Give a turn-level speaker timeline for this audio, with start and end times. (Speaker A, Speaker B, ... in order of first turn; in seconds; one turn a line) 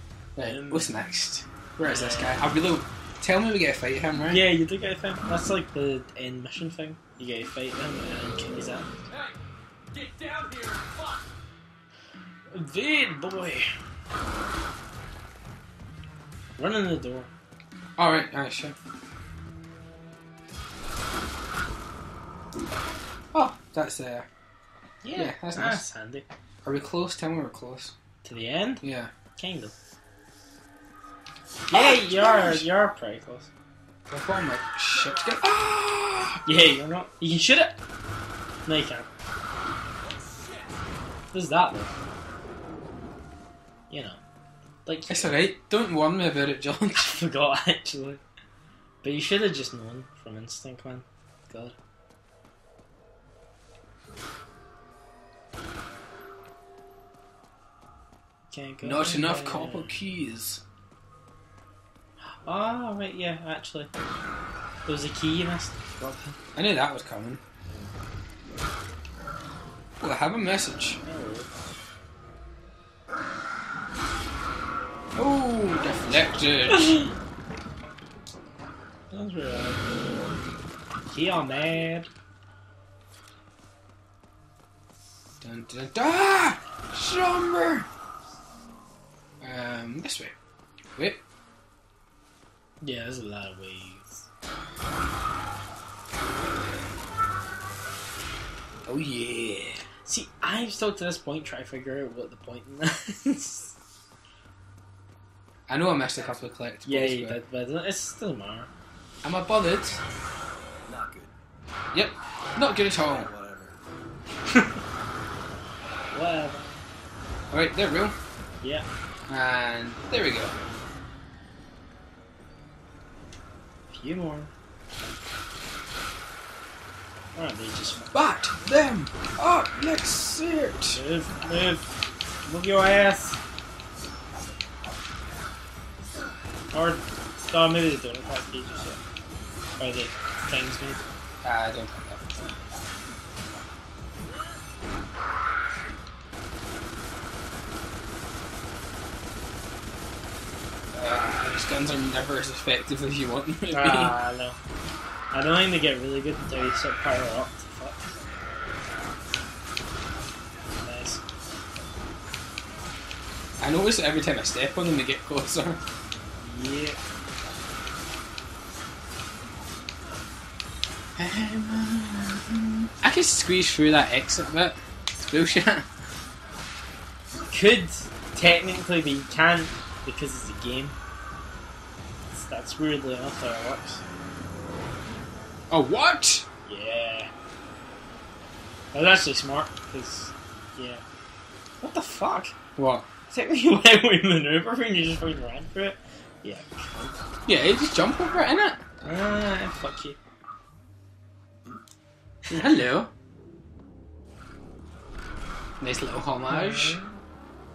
Speaker A: 0.3-4.5
Speaker B: 0.4-0.9
Speaker B: 1.8-2.4
Speaker B: 4.3-8.9
Speaker C: 9.9-11.2
Speaker B: 12.5-13.7
Speaker B: 16.6-17.3
Speaker A: 18.0-18.8
Speaker A: 23.3-24.3
Speaker B: 25.0-26.2
Speaker A: 25.1-25.8
Speaker A: 26.6-27.9
Speaker B: 28.2-29.7
Speaker A: 28.8-29.1
Speaker B: 31.7-33.5
Speaker A: 31.7-32.7
Speaker A: 34.1-36.4
Speaker B: 36.4-37.8
Speaker B: 38.6-39.1
Speaker C: 40.3-40.6
Speaker B: 41.3-41.9
Speaker B: 43.9-44.2
Speaker B: 44.8-45.4
Speaker A: 45.1-47.1
Speaker B: 47.0-48.2
Speaker B: 49.0-51.8
Speaker B: 58.5-60.0
Speaker A: 58.8-60.6
Speaker B: 62.2-63.9
Speaker B: 64.8-66.4
Speaker A: 66.5-67.4
Speaker A: 70.0-71.0
Speaker B: 71.0-71.5
Speaker A: 75.1-77.0
Speaker B: 79.1-79.8
Speaker B: 81.1-82.1
Speaker A: 85.4-87.9
Speaker A: 89.4-90.3
Speaker B: 92.8-94.2
Speaker A: 98.8-99.8
Speaker B: 100.0-103.7
Speaker A: 105.7-107.4
Speaker B: 106.8-108.7
Speaker A: 109.2-110.0
Speaker C: 110.8-111.3
Speaker A: 111.9-113.3
Speaker C: 112.6-113.8
Speaker B: 116.1-116.8
Speaker A: 117.5-118.1
Speaker B: 118.6-118.8
Speaker A: 119.3-120.5
Speaker B: 123.9-124.5
Speaker B: 127.3-128.1
Speaker A: 128.1-131.0
Speaker B: 130.9-131.9
Speaker B: 132.4-133.4
Speaker B: 136.7-139.0
Speaker B: 139.8-141.0
Speaker A: 141.4-142.5
Speaker A: 150.9-154.1
Speaker B: 153.7-154.6
Speaker B: 155.3-158.1
Speaker B: 160.7-161.2
Speaker A: 163.6-165.8
Speaker B: 166.4-167.0
Speaker A: 171.2-175.9
Speaker B: 177.5-181.0
Speaker B: 182.3-184.0
Speaker A: 185.7-186.4
Speaker B: 186.7-187.3
Speaker B: 188.9-191.0
Speaker B: 191.8-192.5
Speaker A: 192.8-193.1
Speaker B: 193.3-197.1
Speaker A: 197.4-198.8
Speaker B: 199.0-200.2
Speaker B: 202.5-202.8
Speaker A: 202.5-203.1
Speaker A: 205.8-207.0
Speaker B: 206.5-207.2